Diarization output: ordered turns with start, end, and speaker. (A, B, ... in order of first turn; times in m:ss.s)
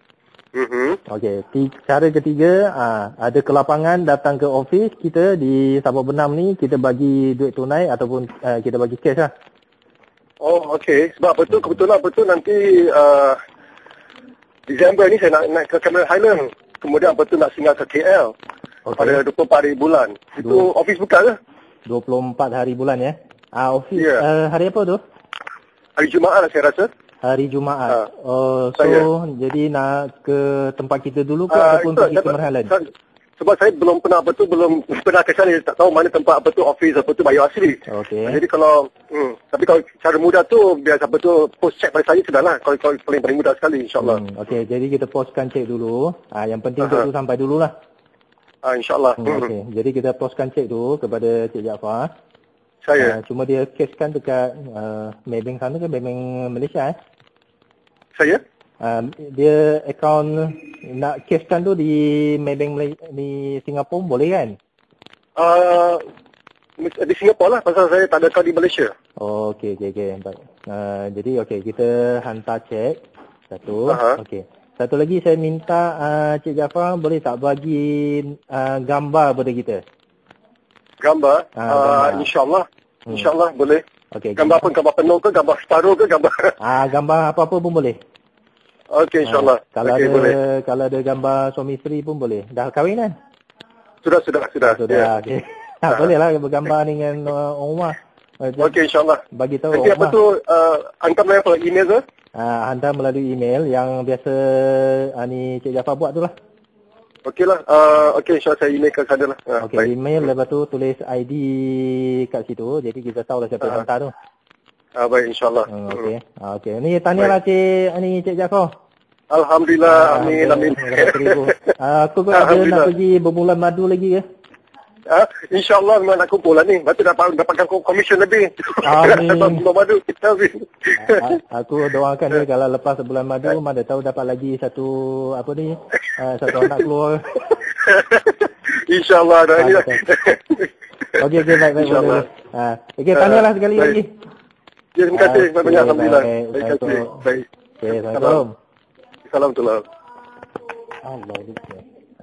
0:00.5-0:01.0 A
0:01.1-0:09.3 B
0:10.4-0:13.4 A
0:14.7-0:18.3 A
0:18.8-0:19.2 B
0:19.0-0:21.4 A
0:20.4-0:20.7 B
0:21.8-0:25.0 B
0:23.9-0:24.2 A
0:26.0-0:26.9 A
0:27.2-0:32.7 B
0:28.8-0:29.0 A
0:31.5-0:44.2 A
0:37.9-0:38.4 B
0:44.0-0:47.7 B
0:46.8-0:47.1 A
0:48.6-0:49.5 A
0:49.2-0:52.1 B
0:52.8-0:53.2 A
0:53.0-0:57.0 B
0:58.8-1:04.6 B
1:05.4-1:06.0 A
1:06.8-1:08.9 A
1:09.2-1:13.0 B
1:13.5-1:19.8 B
1:13.9-1:14.2 A
1:21.0-1:23.8 A
1:21.6-1:22.3 B
1:24.1-1:24.7 B
1:24.4-1:26.5 A
1:26.6-1:28.0 B
1:28.9-1:30.4 A
1:29.2-1:33.1 B
1:34.0-1:35.1 A
1:34.6-1:38.7 B
1:38.6-1:42.0 A
1:39.3-1:40.2 B
1:42.4-1:46.3 B
1:47.2-1:49.9 A
1:49.6-1:54.1 B
1:55.0-1:56.1 A
1:55.7-1:58.7 B
1:59.3-2:01.6 A
1:59.8-2:04.2 B
2:02.3-2:02.9 A
2:05.1-2:11.4 A
2:08.8-2:09.6 B
2:11.0-2:17.5 B
2:17.8-2:22.3 A
2:19.6-2:20.0 B
2:21.2-2:24.2 B
2:23.1-2:24.0 A
2:25.0-2:28.4 A
2:25.1-2:27.2 B
2:27.8-2:28.5 B
2:29.3-2:29.8 A
2:31.0-2:31.8 B